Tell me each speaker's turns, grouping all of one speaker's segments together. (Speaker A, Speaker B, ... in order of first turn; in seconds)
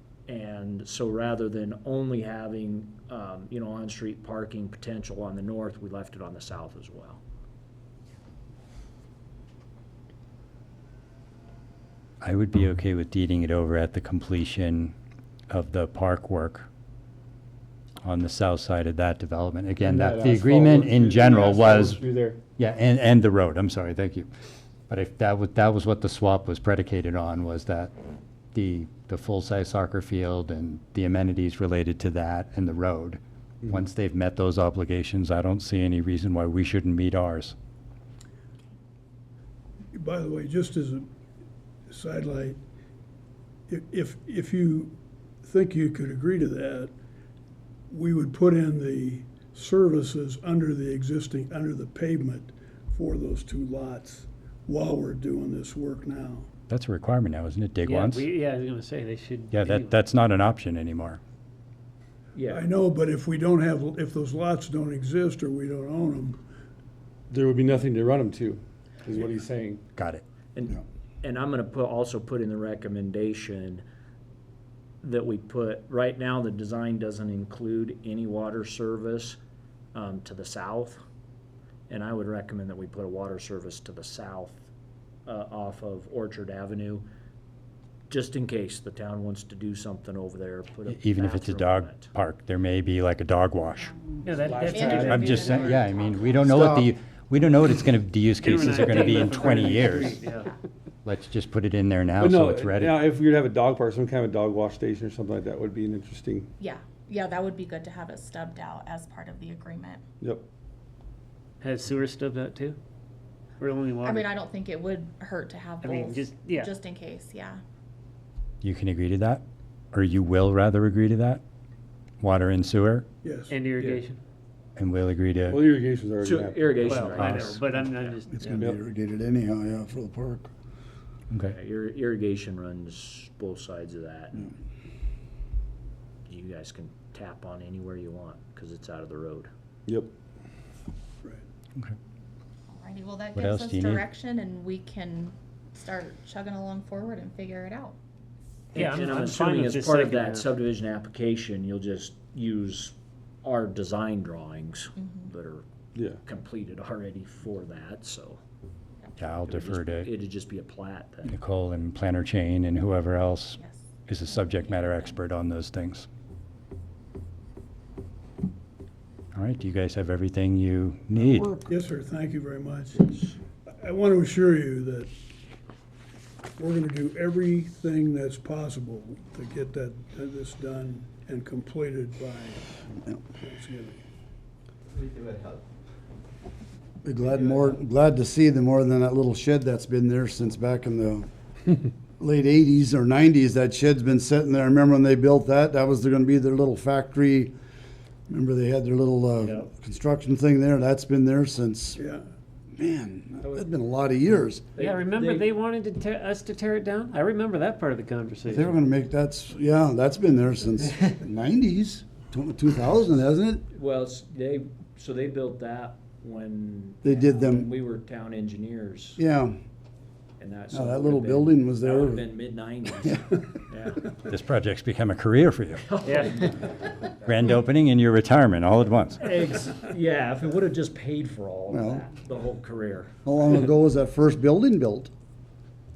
Speaker A: 0.3-7.2, 62.4-62.7, 70.5-73.8, 75.0-79.4, 79.9-81.0, 81.9-84.6, 85.3-87.1, 88.1-92.1, 126.2-128.2, 131.5-134.5, 136.3-139.5, 148.7-155.6, 156.2-158.4, 159.5-161.3, 204.8-205.5, 213.7-219.2, 220.4-224.1, 225.9-226.9, 229.2-233.1
Speaker B: 12.2-14.9, 15.5-16.7, 18.0-22.0, 22.6-24.3, 24.9-27.9, 28.5-37.5, 56.7-58.3, 59.5-61.2, 70.0-70.2, 90.9-93.9, 95.0-100.2, 101.0-103.1, 118.6-119.4, 119.9-121.4, 122.2-123.1, 124.8-125.6, 127.2-127.6, 143.3-144.1, 159.2-160.1, 161.3-166.1, 169.3-171.6, 224.3-225.9, 227.2-229.2
Speaker C: 19.8-22.4, 67.3-69.8, 94.4-95.8, 102.2-106.5, 123.8-124.0, 125.5-127.3, 128.4-128.8, 155.9-156.2
Speaker D: 39.9-41.1, 41.9-42.6, 43.7-46.9, 47.9-56.5, 62.5-66.4, 123.2-123.6, 171.7-175.1, 176.6-182.8, 183.3-184.0, 202.0-202.2
Speaker E: 57.9-60.0, 94.2-95.2, 98.4-100.5, 111.6-112.8, 113.6-114.3, 115.8-116.7, 123.5-124.2, 126.8-128.6, 148.7-150.5, 204.8-208.7, 226.0-226.5
Speaker F: 94.5-96.7, 106.6-110.0, 114.0-117.6, 142.7-147.9, 155.0-155.3, 163.6-165.2
Speaker G: 96.4-96.9, 128.4-130.5, 187.0-191.3, 192.2-197.6, 198.3-202.0, 202.8-204.7, 208.5-213.6, 217.0-217.7, 219.2-219.6, 220.7-222.3, 231.7-232.1, 233.2-235.1